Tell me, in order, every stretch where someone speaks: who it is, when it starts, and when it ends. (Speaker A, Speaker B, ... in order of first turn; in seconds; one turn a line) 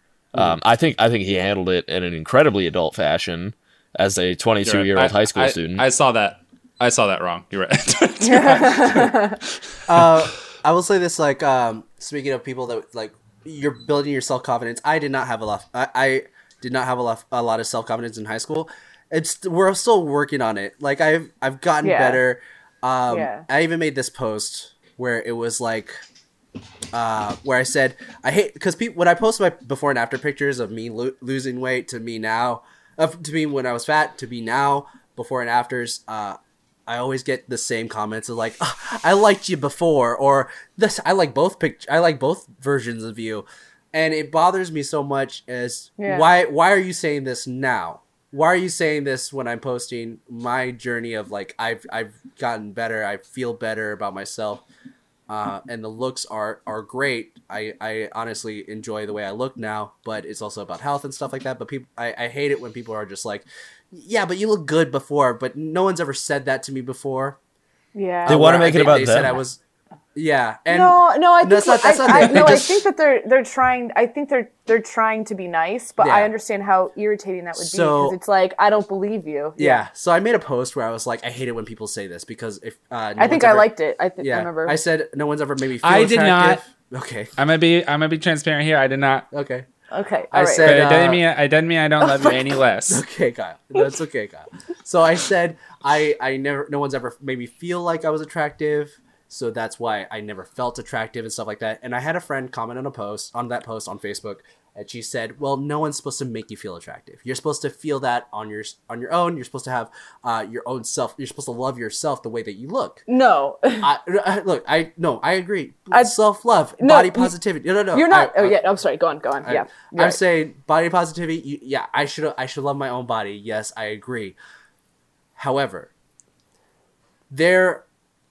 Speaker A: 0.3-5.8
Speaker B: 4.6-10.2
Speaker C: 8.2-9.4
Speaker D: 9.9-25.9
Speaker C: 21.8-22.2
Speaker C: 23.1-23.5
Speaker D: 26.9-54.6
Speaker C: 46.0-46.3
Speaker D: 55.3-67.4
Speaker C: 68.0-68.7
Speaker D: 68.3-69.6
Speaker A: 68.3-69.4
Speaker D: 70.1-72.8
Speaker C: 70.7-79.8
Speaker D: 76.0-76.3
Speaker D: 77.6-78.2
Speaker D: 79.6-87.3
Speaker C: 83.2-84.8
Speaker B: 85.8-86.6
Speaker B: 87.4-89.3
Speaker D: 89.3-89.7
Speaker C: 89.9-91.0
Speaker D: 90.3-91.2
Speaker B: 90.6-93.0
Speaker C: 92.0-92.4
Speaker D: 92.9-113.0
Speaker C: 113.1-113.9
Speaker D: 113.8-118.6
Speaker C: 116.8-117.4
Speaker C: 117.9-120.2
Speaker D: 119.4-124.4
Speaker D: 125.4-125.9
Speaker D: 127.3-127.9